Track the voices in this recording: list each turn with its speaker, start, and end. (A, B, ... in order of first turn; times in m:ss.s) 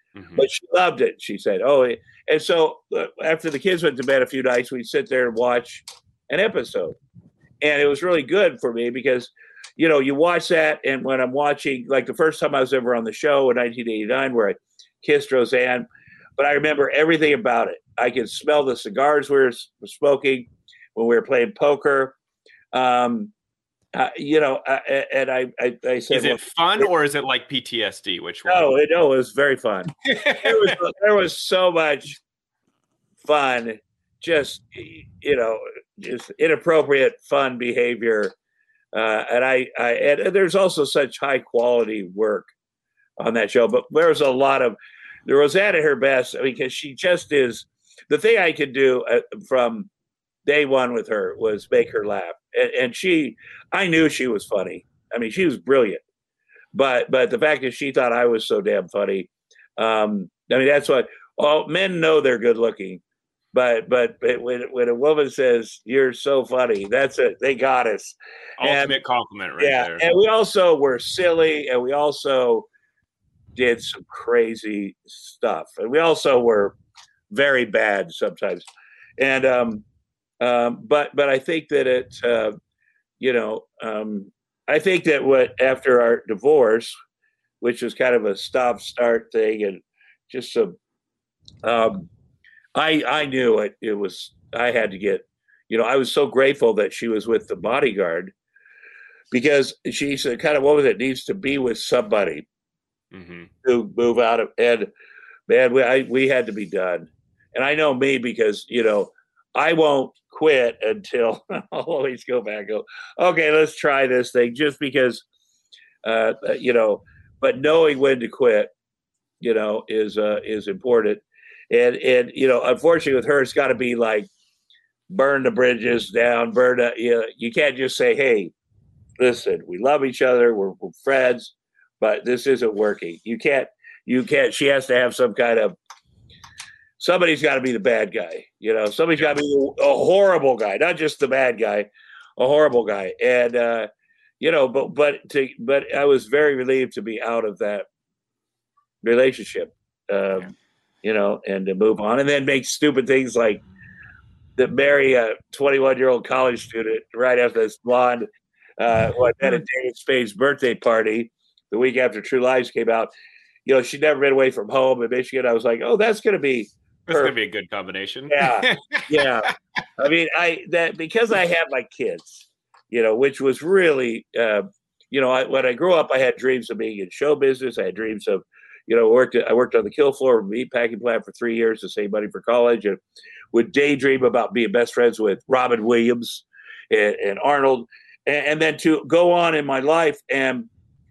0:00.2-0:00.5 A
0:00.4-0:07.0 B
0:07.6-0:15.9 B
0:16.4-0:22.2 B
0:22.7-0:23.3 B
0:23.9-0:26.9 B
0:26.1-0:28.7 A
0:28.5-0:32.2 B
0:30.1-0:30.7 A
0:33.2-0:38.3 B
0:38.9-0:42.5 B
0:43.2-0:49.9 B
0:50.4-0:56.0 B
0:56.7-1:03.0 B
1:03.5-1:08.9 B
1:08.6-1:10.1 A
1:09.6-1:12.7 B
1:13.6-1:16.8 B
1:17.3-1:18.7 B
1:19.2-1:19.8 B
1:20.4-1:22.6 B
1:23.2-1:26.9 B
1:27.6-1:30.8 B
1:31.6-1:32.1 B
1:32.8-1:38.3 B
1:39.3-1:42.4 B
1:43.1-1:43.5 A
1:43.6-1:44.9 B
1:45.5-1:55.2 B
1:56.0-1:58.7 B
1:59.4-2:04.3 B
2:05.1-2:08.5 B
2:09.2-2:15.8 B
2:17.0-2:23.9 B
2:24.4-2:27.8 B
2:29.0-2:33.6 B
2:34.6-2:38.3 B
2:38.8-2:43.1 B
2:43.7-2:47.3 B
2:47.1-2:49.3 A
2:48.3-3:03.0 B
3:03.5-3:10.7 B